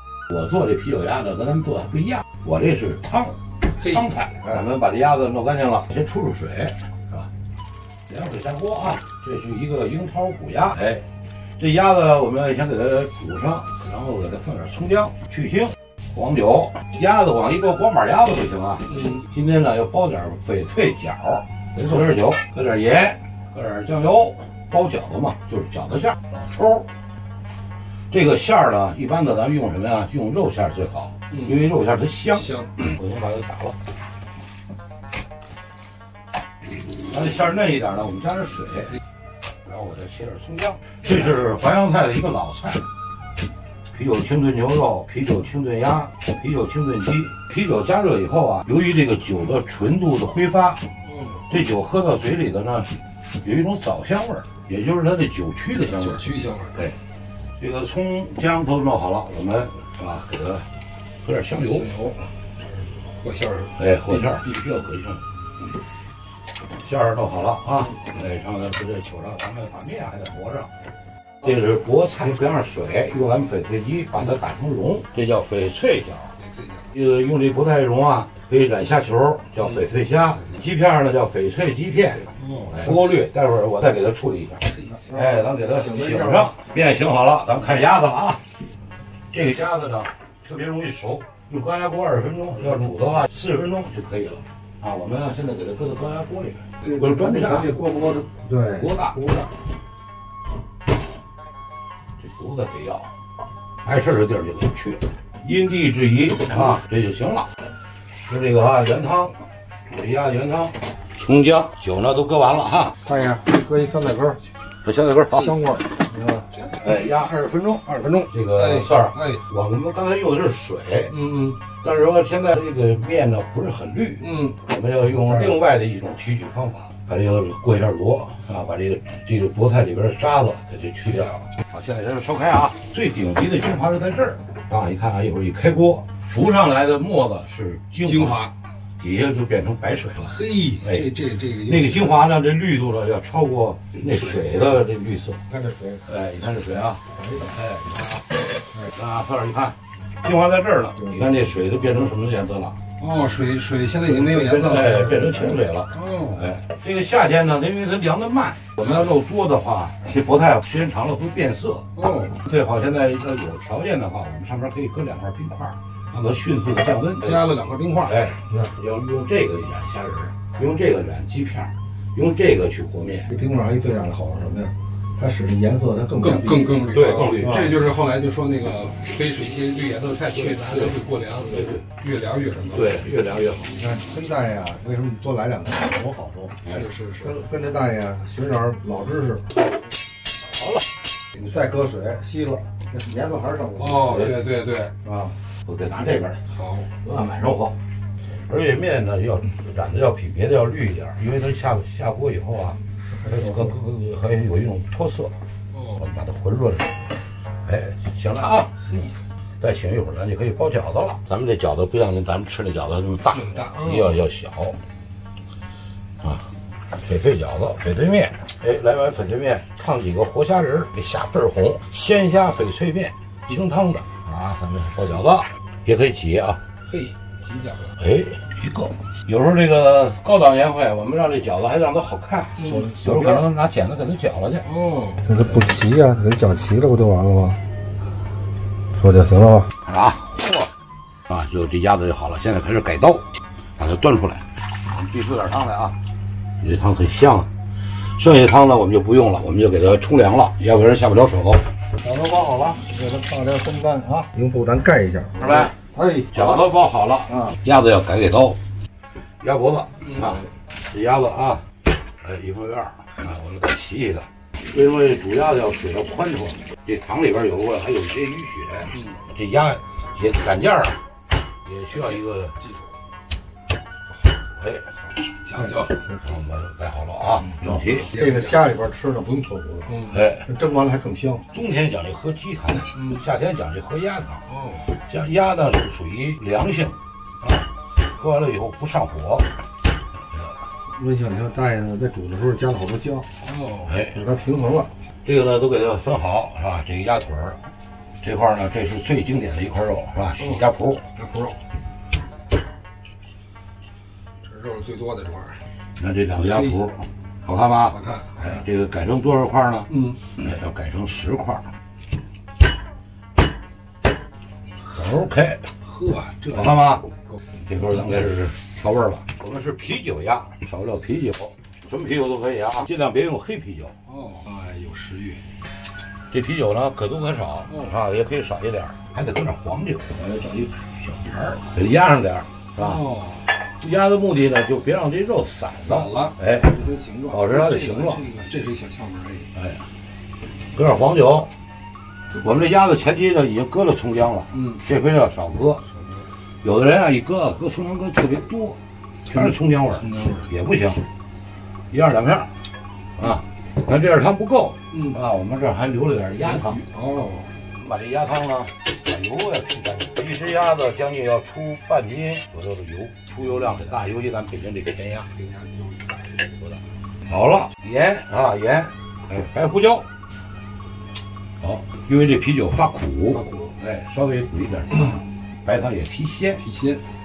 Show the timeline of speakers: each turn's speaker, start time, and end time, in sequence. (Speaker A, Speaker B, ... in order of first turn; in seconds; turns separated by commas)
Speaker A: 0.3-7.3, Speaker A: 8.1-11.0, Speaker A: 11.6-26.9, Speaker A: 28.1-33.8, Speaker A: 37.1-38.9, Speaker A: 39.6-42.9, Speaker A: 43.9-50.8, Speaker B: 51.0-51.4, Speaker A: 51.4-57.0, Speaker B: 55.9-56.8, Speaker A: 57.6-60.6, Speaker A: 61.2-61.9, Speaker B: 61.8-62.3, Speaker B: 63.1-63.8, Speaker A: 63.8-65.2, Speaker A: 66.8-70.7, Speaker A: 71.4-76.3, Speaker A: 76.8-88.4, Speaker B: 82.4-82.7, Speaker A: 89.3-98.0, Speaker C: 97.7-98.6, Speaker A: 98.6-99.3, Speaker A: 102.2-103.1, Speaker A: 103.8-107.5, Speaker A: 108.2-113.0, Speaker C: 113.2-114.3, Speaker A: 114.8-115.6, Speaker C: 115.7-116.0, Speaker A: 116.8-121.3, Speaker B: 118.1-119.4, Speaker B: 121.1-121.6, Speaker A: 121.8-138.4, Speaker B: 124.2-124.5, Speaker B: 131.2-131.4, Speaker B: 138.1-138.5, Speaker A: 139.0-145.4, Speaker B: 140.3-142.1, Speaker A: 146.0-152.8, Speaker B: 153.0-155.0, Speaker A: 154.1-167.5, Speaker B: 155.9-156.4, Speaker B: 161.9-162.3, Speaker B: 167.2-168.1, Speaker A: 168.0-173.4, Speaker C: 173.4-176.7, Speaker B: 176.2-182.9, Speaker A: 176.8-177.8, Speaker A: 180.2-181.8, Speaker A: 182.7-183.9, Speaker C: 183.9-186.6, Speaker B: 186.7-187.4, Speaker C: 187.3-189.4, Speaker C: 191.4-193.9, Speaker B: 193.8-194.9, Speaker A: 194.0-194.4, Speaker A: 195.6-196.4, Speaker B: 196.5-196.9, Speaker A: 197.0-197.8, Speaker A: 198.4-205.3, Speaker A: 205.9-207.1, Speaker A: 207.6-208.9, Speaker A: 209.6-214.8, Speaker B: 213.3-214.1, Speaker A: 216.2-226.6, Speaker B: 226.9-227.9, Speaker A: 228.0-234.8, Speaker B: 234.7-235.4, Speaker C: 235.4-237.5, Speaker C: 239.0-239.6, Speaker A: 239.8-240.7, Speaker A: 241.3-243.2, Speaker A: 243.8-245.9, Speaker A: 246.6-251.6, Speaker C: 252.1-255.4, Speaker A: 255.3-255.8, Speaker A: 256.3-258.6, Speaker A: 259.4-261.6, Speaker A: 262.2-271.0, Speaker B: 268.9-269.2, Speaker A: 271.6-272.6, Speaker A: 274.6-274.9, Speaker B: 275.4-275.9, Speaker A: 276.2-278.1, Speaker B: 278.1-278.6, Speaker C: 278.2-279.9, Speaker B: 279.9-280.1, Speaker A: 280.1-280.5, Speaker C: 280.5-281.4, Speaker A: 281.5-289.5, Speaker B: 284.5-284.9, Speaker C: 291.0-293.2, Speaker B: 293.4-293.9, Speaker A: 293.8-294.2, Speaker C: 294.3-294.8, Speaker A: 295.2-297.6, Speaker A: 298.2-301.0, Speaker B: 301.1-301.6, Speaker B: 304.4-305.6, Speaker A: 306.0-311.7, Speaker B: 307.9-308.4, Speaker B: 309.9-310.2, Speaker A: 314.9-315.7, Speaker B: 315.8-316.7, Speaker A: 316.4-317.1, Speaker A: 317.6-323.9, Speaker B: 324.1-325.4, Speaker A: 326.3-333.1, Speaker B: 332.8-333.5, Speaker A: 333.8-338.3, Speaker B: 335.9-339.5, Speaker A: 339.5-339.8, Speaker A: 340.7-341.5, Speaker A: 342.3-345.8, Speaker B: 344.5-344.8, Speaker A: 346.6-351.0, Speaker B: 350.0-350.4, Speaker A: 351.9-352.5, Speaker A: 353.2-356.8, Speaker B: 356.6-357.5, Speaker A: 357.7-365.3, Speaker B: 365.4-366.4, Speaker A: 366.6-370.1, Speaker A: 371.6-376.7, Speaker B: 373.4-373.7, Speaker B: 376.6-377.0